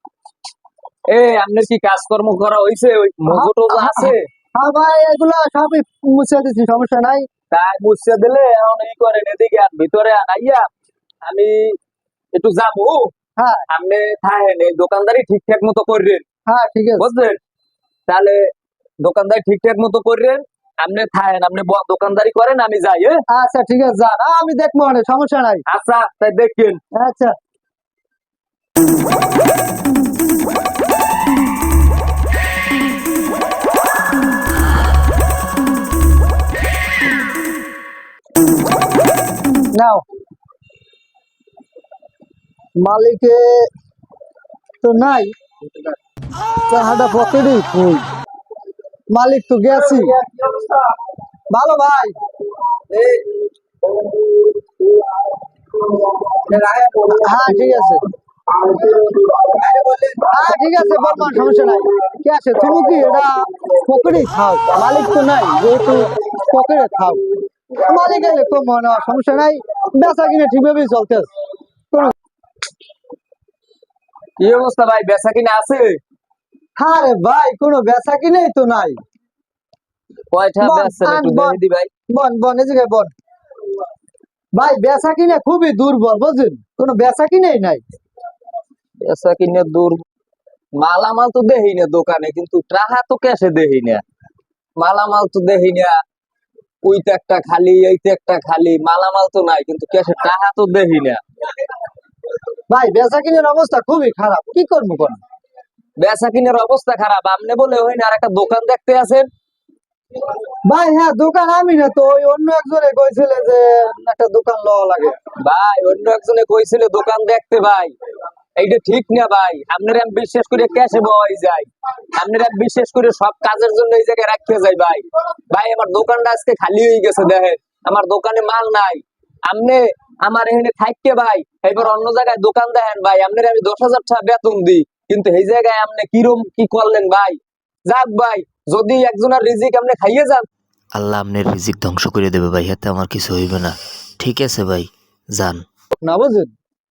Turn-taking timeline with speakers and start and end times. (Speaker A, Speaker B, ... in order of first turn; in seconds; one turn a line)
Speaker A: 1.1-4.2
Speaker B: 3.3-7.2
Speaker A: 7.5-10.7
Speaker A: 11.2-11.8
Speaker A: 12.3-13.1
Speaker B: 13.4-13.6
Speaker A: 13.7-16.2
Speaker B: 16.4-17.0
Speaker A: 17.0-17.4
Speaker A: 18.1-18.5
Speaker A: 19.0-23.2
Speaker B: 23.3-25.6
Speaker A: 25.7-26.8
Speaker B: 26.9-27.4
Speaker B: 39.7-40.0
Speaker B: 42.8-43.7
Speaker B: 44.8-45.3
Speaker B: 46.7-48.1
Speaker B: 49.1-50.1
Speaker A: 50.3-50.7
Speaker B: 51.5-52.1
Speaker A: 52.9-53.2
Speaker A: 56.5-57.1
Speaker B: 57.1-58.0
Speaker A: 59.5-60.2
Speaker B: 60.3-67.2
Speaker B: 67.8-71.3
Speaker A: 74.4-76.0
Speaker B: 76.8-79.0
Speaker A: 80.3-81.9
Speaker B: 80.6-81.6
Speaker B: 82.1-83.1
Speaker B: 84.5-87.8
Speaker A: 89.0-90.0
Speaker A: 90.8-94.0
Speaker A: 94.8-96.0
Speaker A: 96.8-101.2
Speaker B: 102.7-105.2
Speaker A: 106.0-109.3
Speaker B: 110.7-115.2
Speaker A: 115.4-117.9
Speaker A: 118.6-140.4
Speaker C: 140.9-145.7
Speaker B: 146.0-146.5